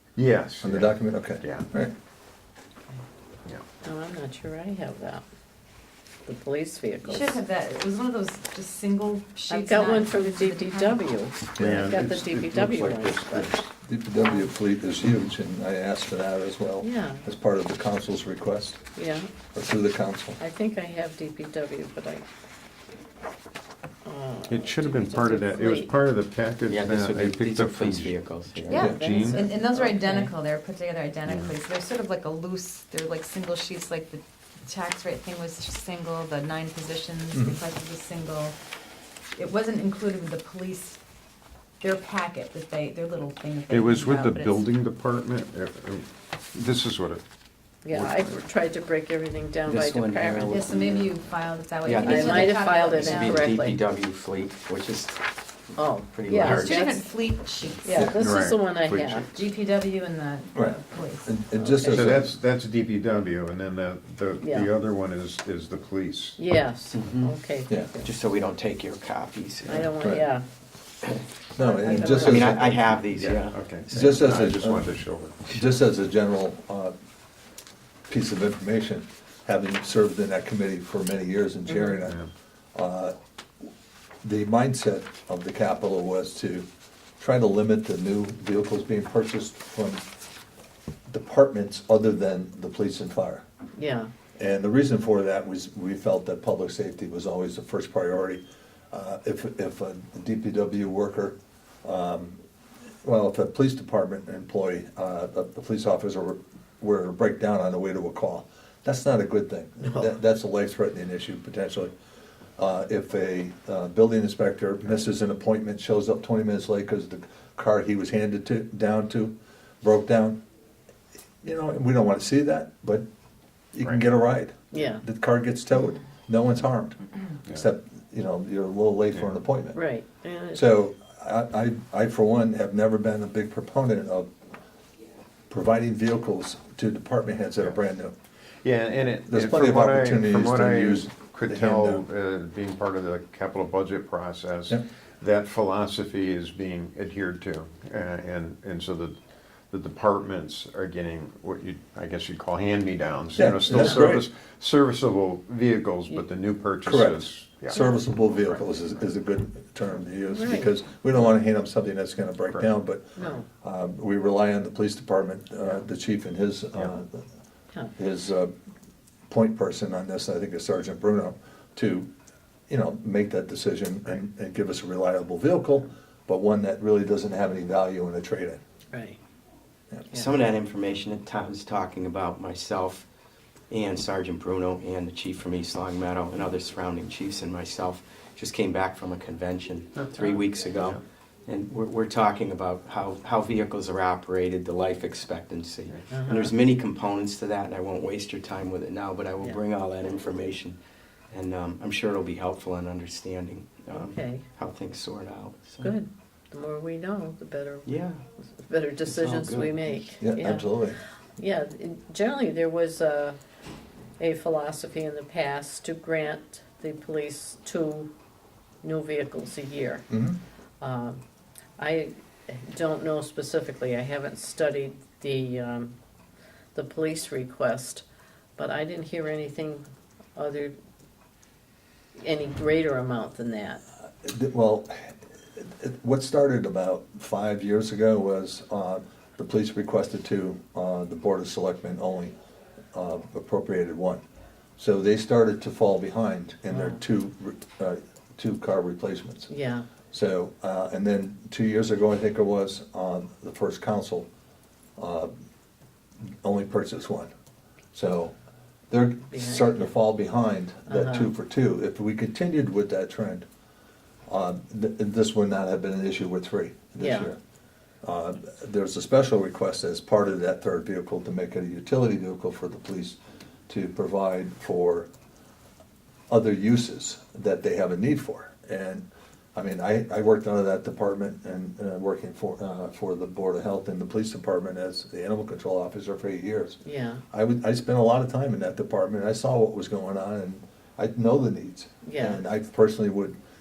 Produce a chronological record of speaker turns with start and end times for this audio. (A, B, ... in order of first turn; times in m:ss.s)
0:00.2-0:01.7 A
0:00.6-0:01.9 B
0:03.8-0:05.2 C
0:06.2-0:07.4 C
0:07.0-0:11.1 D
0:09.5-0:13.5 C
0:11.6-0:11.9 B
0:11.6-0:13.6 A
0:13.7-0:18.8 B
0:14.1-0:14.5 C
0:16.8-0:17.2 C
0:18.9-0:19.3 C
0:19.5-0:20.4 B
0:20.4-0:22.2 C
0:24.0-0:25.9 C
0:24.5-0:29.5 A
0:26.7-0:28.9 E
0:28.7-0:38.5 D
0:28.9-0:29.9 C
0:31.2-0:31.5 A
0:39.4-0:41.0 D
0:41.8-0:44.6 D
0:43.7-0:47.2 A
0:47.8-0:50.7 C
0:47.8-0:48.4 A
0:49.6-0:51.1 E
0:50.5-0:53.5 D
0:51.8-0:55.2 E
0:52.0-0:53.8 C
0:55.8-0:57.0 C
0:56.0-0:56.9 E
0:56.4-0:58.1 D
0:57.8-0:59.4 C
0:57.9-0:58.2 B
0:58.1-0:59.2 A
0:59.2-1:01.3 D
1:00.5-1:02.3 B
1:01.7-1:02.1 C
1:01.8-1:06.4 A
1:04.4-1:04.7 C
1:06.4-1:08.1 C
1:06.9-1:07.3 E
1:08.0-1:09.9 E
1:09.6-1:10.4 C
1:10.0-1:10.3 B
1:11.5-1:12.9 B
1:11.6-1:12.5 C
1:11.8-1:14.3 E
1:13.1-1:15.6 A
1:13.9-1:14.9 B
1:15.5-1:16.9 B
1:18.1-1:22.2 B
1:21.7-1:21.9 C
1:22.0-1:22.3 A
1:22.7-1:23.2 B
1:24.2-1:26.7 B
1:27.2-1:30.0 B
1:31.1-1:33.4 B
1:33.8-1:34.1 C
1:34.4-1:42.4 B
1:43.0-1:51.9 B
1:49.8-1:50.1 C
1:52.6-2:00.4 B
2:01.4-2:03.0 B
2:03.7-2:09.8 B
2:04.7-2:05.0 C
2:09.7-2:10.6 C
2:10.5-2:14.3 B
2:15.5-2:18.1 B
2:18.6-2:29.2 A
2:19.3-2:22.0 B
2:29.7-2:37.8 A
2:33.4-2:34.2 B
2:36.8-2:47.2 B
2:40.3-2:40.7 C
2:43.2-2:43.4 C
2:48.0-2:48.5 B
2:49.3-2:52.1 B
2:52.7-2:58.6 B
2:58.9-2:59.2 C
3:00.1-3:03.0 E
3:03.7-3:20.8 E
3:16.1-3:16.5 C
3:21.3-3:25.9 E
3:23.9-3:24.4 C
3:25.8-3:28.0 C
3:27.8-3:28.2 E
3:28.5-3:30.7 C
3:29.1-3:30.1 E
3:30.2-3:31.0 B
3:31.4-3:33.4 C
3:34.2-3:38.1 C
3:38.8-3:40.0 C
3:40.1-3:40.4 B
3:40.8-3:41.2 C
3:41.8-3:45.9 C
3:46.7-3:48.0 C
3:48.6-3:49.8 C
3:50.4-3:50.7 C
3:52.2-3:53.8 C
3:54.2-4:02.3 B
4:02.9-4:04.2 B
4:04.8-4:09.5 B
4:06.7-4:07.0 C
4:09.5-4:09.9 C
4:10.1-4:14.3 B
4:15.0-4:15.3 B
4:16.4-4:17.3 B
4:17.9-4:18.3 B
4:18.9-4:23.4 B
4:19.3-4:19.8 C
4:20.9-4:21.3 C
4:24.3-4:27.4 B
4:27.0-4:27.3 C
4:28.0-4:33.2 B
4:33.7-4:35.1 B
4:36.3-4:46.8 B
4:46.8-4:47.2 C
4:47.3-4:53.4 B
4:52.0-4:52.4 C